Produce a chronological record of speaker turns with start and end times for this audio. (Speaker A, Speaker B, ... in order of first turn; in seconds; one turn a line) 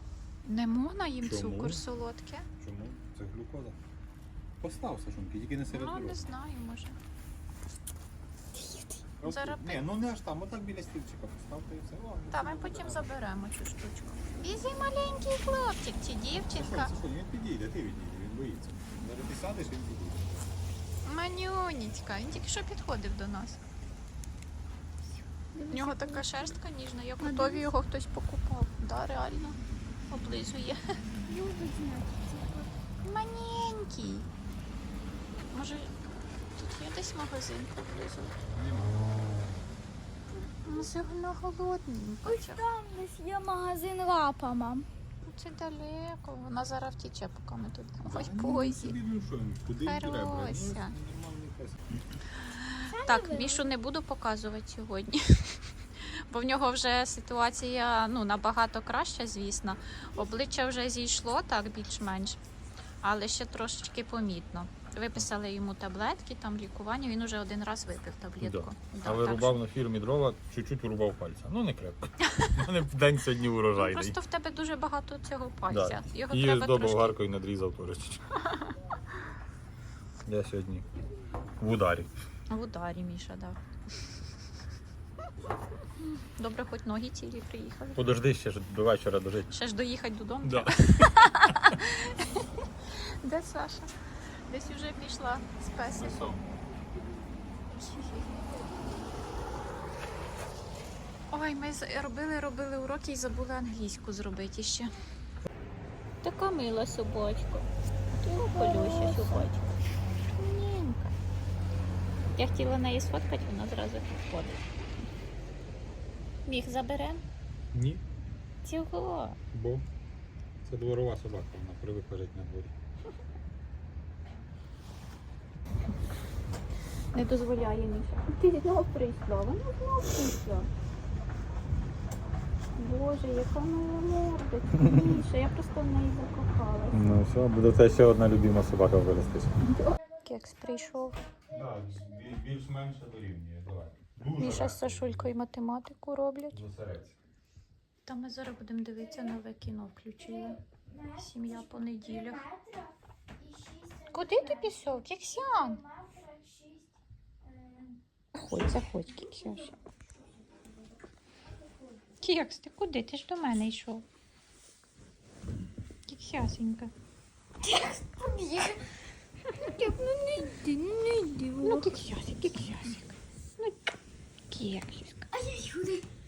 Speaker A: 0.4-2.5
Speaker B: 1.2-1.8
Speaker B: 2.6-3.8
Speaker B: 4.6-6.2
Speaker A: 5.7-7.0
Speaker C: 8.5-9.0
Speaker B: 9.2-13.1
Speaker A: 9.2-9.8
Speaker A: 12.3-16.9
Speaker B: 16.5-20.3
Speaker A: 21.0-23.6
Speaker C: 25.5-26.6
Speaker A: 25.7-29.6
Speaker C: 27.2-27.7
Speaker A: 30.1-30.8
Speaker C: 31.2-32.7
Speaker A: 33.0-34.3
Speaker A: 35.5-35.9
Speaker A: 36.5-38.4
Speaker B: 38.5-39.5
Speaker C: 40.5-40.9
Speaker A: 40.6-42.6
Speaker C: 42.2-44.9
Speaker A: 45.2-49.0
Speaker B: 48.0-51.8
Speaker A: 49.8-51.0
Speaker A: 52.5-62.4
Speaker C: 52.8-53.7
Speaker A: 63.0-69.6
Speaker B: 68.4-74.2
Speaker A: 73.7-77.2
Speaker B: 75.7-78.2
Speaker B: 80.2-80.9
Speaker B: 81.6-82.1
Speaker A: 82.5-83.6
Speaker A: 86.0-88.0
Speaker B: 87.9-89.5
Speaker A: 89.5-93.9
Speaker B: 90.4-90.7
Speaker A: 94.5-96.2
Speaker B: 96.0-96.4
Speaker A: 101.3-104.9
Speaker A: 106.2-107.7
Speaker A: 108.2-109.7
Speaker C: 108.3-109.5
Speaker A: 110.3-111.1
Speaker A: 112.3-114.6
Speaker A: 116.5-117.2
Speaker B: 117.7-118.0
Speaker A: 118.6-119.4
Speaker B: 119.5-119.9
Speaker B: 120.6-122.7
Speaker A: 127.1-130.7
Speaker A: 132.8-137.0
Speaker B: 136.9-139.6
Speaker A: 139.6-141.2
Speaker C: 140.1-142.3
Speaker B: 141.5-145.3
Speaker A: 144.4-146.6
Speaker B: 146.5-147.1
Speaker A: 148.1-150.6
Speaker C: 150.2-158.0
Speaker A: 151.2-152.4
Speaker A: 154.1-155.8
Speaker A: 158.3-159.7
Speaker C: 159.1-159.7
Speaker A: 162.2-164.0
Speaker A: 166.1-166.9
Speaker C: 167.6-168.8
Speaker C: 169.5-171.9
Speaker A: 171.6-173.8
Speaker A: 174.5-175.3
Speaker C: 175.3-176.1